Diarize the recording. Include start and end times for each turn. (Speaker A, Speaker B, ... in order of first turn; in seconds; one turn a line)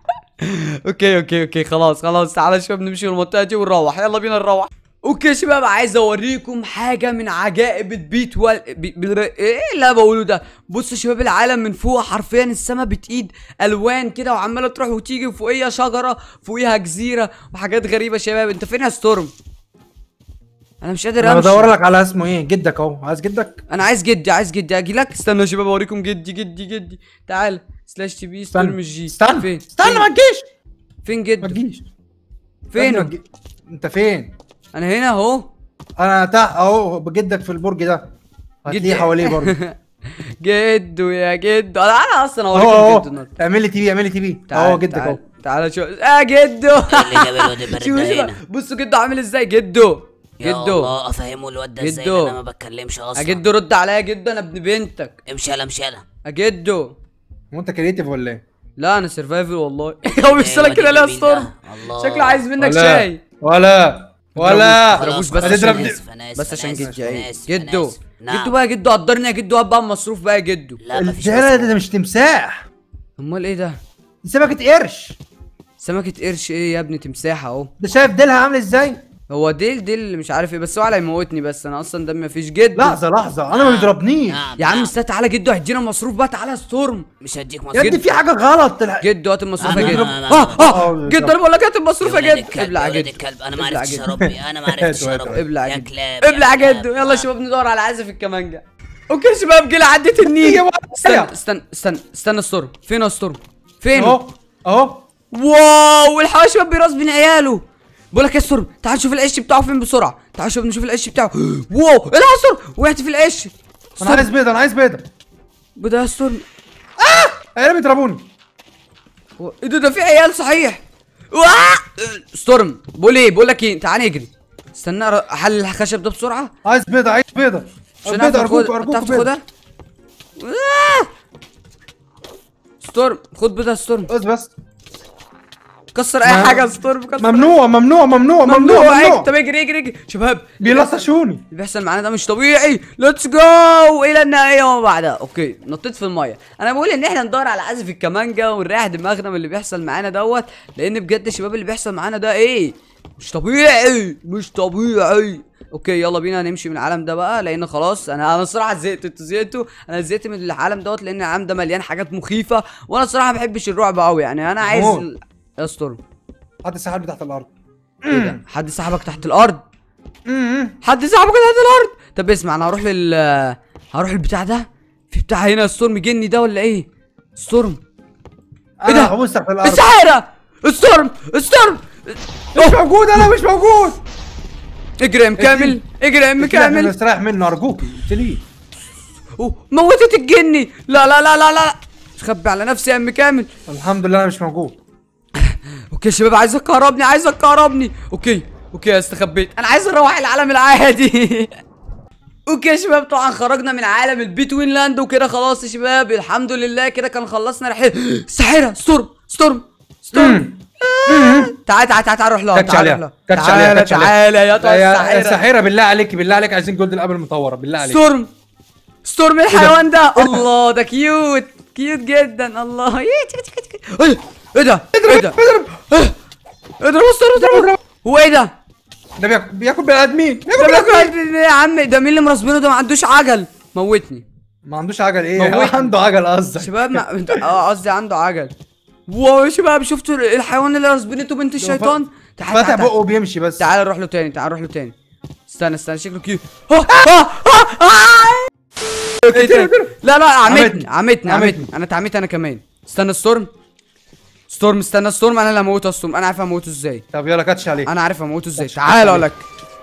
Speaker A: 0.4-19.3
Speaker A: 20.8-21.7
Speaker B: 21.2-23.6
Speaker A: 23.7-30.1
Speaker B: 28.5-30.5
Speaker A: 31.0-31.6
Speaker B: 31.4-31.9
Speaker A: 32.7-33.1
Speaker B: 32.7-34.3
Speaker A: 34.7-35.5
Speaker B: 36.0-38.1
Speaker B: 38.6-39.5
Speaker A: 38.7-43.3
Speaker B: 42.5-45.2
Speaker A: 44.5-50.9
Speaker C: 46.9-48.4
Speaker C: 50.4-53.4
Speaker A: 51.8-52.4
Speaker A: 53.1-55.2
Speaker C: 55.2-56.0
Speaker A: 56.2-56.9
Speaker B: 57.5-58.4
Speaker A: 58.8-63.2
Speaker C: 60.2-62.5
Speaker B: 62.6-66.0
Speaker A: 64.3-70.8
Speaker C: 64.8-68.5
Speaker C: 70.8-71.8
Speaker B: 70.9-72.6
Speaker A: 73.2-73.8
Speaker B: 74.2-75.2
Speaker A: 75.8-77.7
Speaker B: 77.8-79.0
Speaker A: 79.3-83.0
Speaker B: 82.7-84.5
Speaker C: 83.5-84.9
Speaker A: 84.6-87.1
Speaker C: 87.2-88.0
Speaker B: 87.7-89.1
Speaker A: 89.0-94.1
Speaker B: 89.6-91.3
Speaker C: 89.6-90.7
Speaker C: 92.0-97.3
Speaker B: 94.1-95.4
Speaker A: 95.2-104.2
Speaker B: 100.2-101.3
Speaker B: 103.9-105.0
Speaker A: 105.3-114.3
Speaker B: 114.0-115.1
Speaker A: 115.8-116.4
Speaker B: 117.0-118.3
Speaker A: 119.4-126.5
Speaker B: 126.6-129.3
Speaker A: 128.0-129.4
Speaker A: 130.4-131.1
Speaker A: 132.8-134.1
Speaker B: 134.1-134.5
Speaker A: 135.9-137.5
Speaker B: 136.2-136.7
Speaker B: 137.2-139.3
Speaker A: 138.4-166.0
Speaker B: 140.6-141.4
Speaker B: 164.6-165.1
Speaker B: 166.6-167.5
Speaker B: 168.0-168.4
Speaker A: 168.1-169.6
Speaker B: 170.2-170.8
Speaker A: 170.8-177.8
Speaker B: 178.8-179.9
Speaker A: 178.9-183.2
Speaker B: 182.5-184.0
Speaker A: 185.0-186.9
Speaker B: 185.4-185.8
Speaker B: 186.4-188.4
Speaker A: 189.4-193.5
Speaker B: 193.7-194.8
Speaker A: 195.4-201.6
Speaker A: 202.5-215.4
Speaker B: 210.1-211.5
Speaker B: 212.5-218.0
Speaker A: 217.8-218.3
Speaker A: 219.0-226.2
Speaker B: 219.5-220.4
Speaker B: 224.9-225.7
Speaker A: 226.8-228.5
Speaker B: 227.3-227.8
Speaker B: 229.2-231.1
Speaker A: 230.5-234.2
Speaker B: 234.6-237.5
Speaker A: 235.3-235.9
Speaker A: 236.6-238.5
Speaker A: 239.1-242.9
Speaker B: 241.6-243.7
Speaker A: 243.6-244.9
Speaker A: 245.5-248.5
Speaker A: 249.1-253.5
Speaker B: 249.3-249.9
Speaker B: 250.4-251.7
Speaker A: 254.5-257.0
Speaker B: 257.1-257.9
Speaker A: 257.9-259.5
Speaker B: 258.6-259.3